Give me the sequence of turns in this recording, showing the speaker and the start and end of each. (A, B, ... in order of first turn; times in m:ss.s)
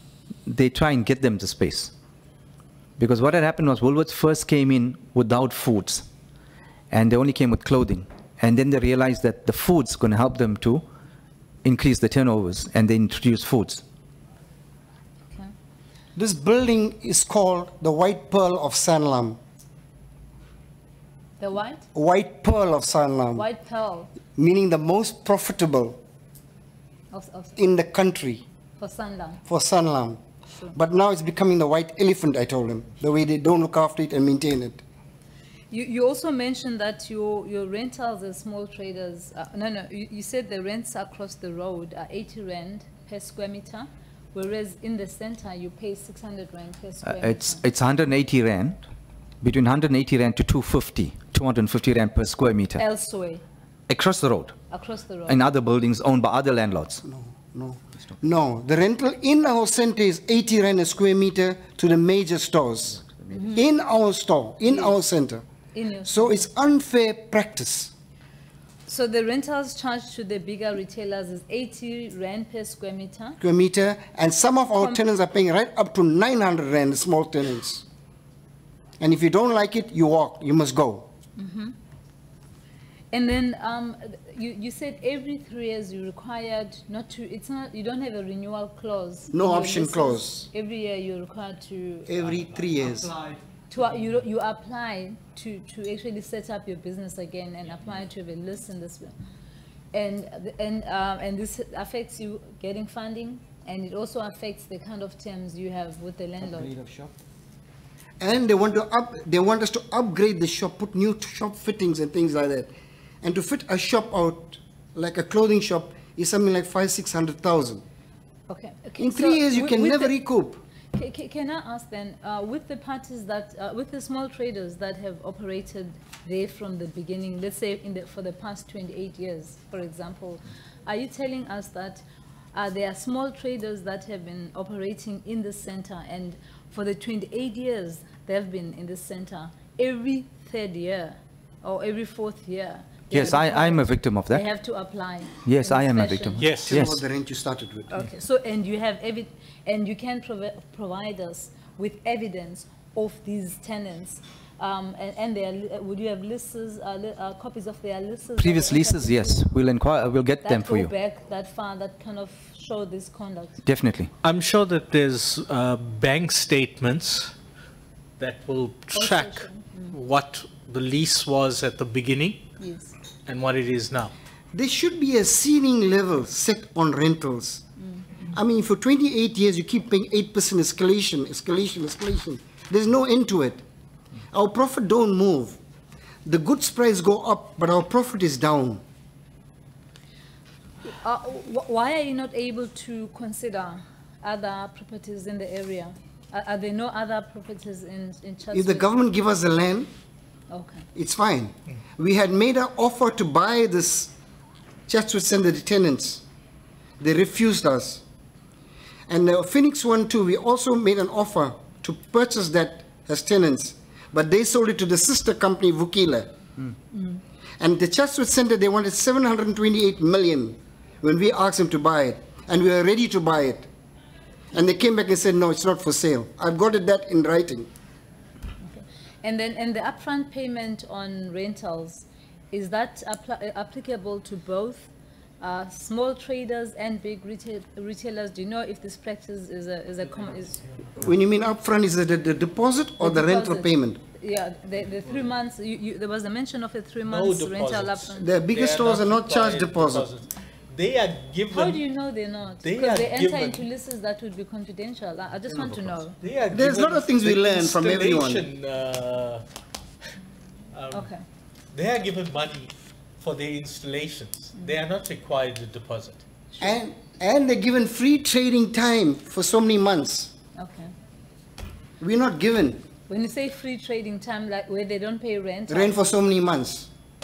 0:00.5-0:01.9 A
0:03.0-0:06.0 A
0:06.9-0:10.8 A
0:11.6-0:13.8 A
0:16.2-0:19.4 B
0:21.4-0:21.9 C
0:22.0-0:23.4 B
0:23.3-0:24.1 C
0:24.4-0:26.0 B
0:27.1-0:27.6 C
0:27.6-0:28.4 B
0:28.8-0:29.4 C
0:29.5-0:30.2 B
0:30.7-0:34.8 B
0:35.7-0:47.6 C
0:47.0-0:48.8 A
0:49.4-0:52.8 A
0:52.8-0:53.4 C
0:53.9-0:54.6 A
0:54.7-0:55.4 C
0:55.3-0:57.0 A
0:57.0-1:05.4 B
1:03.3-1:03.7 C
1:04.7-1:05.0 C
1:05.7-1:06.5 C
1:06.0-1:07.9 B
1:08.9-1:13.4 C
1:13.4-1:17.8 B
1:14.8-1:15.0 C
1:19.0-1:21.1 B
1:21.4-1:21.7 C
1:23.1-1:32.3 C
1:29.3-1:30.5 B
1:32.1-1:33.1 B
1:33.7-1:39.1 C
1:39.9-1:46.7 C
1:46.7-1:47.1 B
1:48.2-1:52.7 B
1:53.2-1:57.8 B
1:58.5-2:00.1 C
1:59.0-2:00.6 B
2:00.9-2:12.0 C
2:12.5-2:26.6 C
2:23.1-2:24.4 A
2:25.4-2:27.0 A
2:26.4-2:26.8 D
2:26.6-2:28.0 B
2:27.9-2:39.4 C
2:38.4-2:40.9 A
2:40.4-2:43.6 C
2:43.6-2:44.1 A
2:44.2-2:47.3 D
2:48.2-2:52.4 D
2:48.9-2:50.0 C
2:52.6-2:52.9 C
2:53.2-2:54.1 D
2:54.5-2:57.6 B
2:58.3-3:03.6 B
3:04.3-3:05.6 B
3:06.2-3:08.8 B
3:10.8-3:18.9 C
3:18.5-3:19.9 B
3:20.5-3:20.8 C
3:20.9-3:24.1 B
3:24.9-3:26.2 B
3:27.0-3:28.0 B
3:29.1-3:36.3 B
3:36.9-3:37.2 C
3:37.6-3:43.7 B
3:44.5-3:47.7 B
3:48.6-4:00.6 C
4:01.0-4:04.0 B
4:03.0-4:08.3 C
4:07.0-4:11.8 D
4:08.2-4:10.1 B
4:11.5-4:16.2 C
4:12.6-4:13.7 D
4:15.5-4:19.4 D
4:16.5-4:18.4 B
4:20.7-4:21.1 D
4:20.9-4:21.2 C
4:21.7-4:26.2 D
4:26.5-4:26.8 C
4:26.6-4:30.3 B
4:30.6-4:30.9 C
4:32.0-4:32.8 B
4:33.1-4:36.1 C
4:35.7-4:36.9 B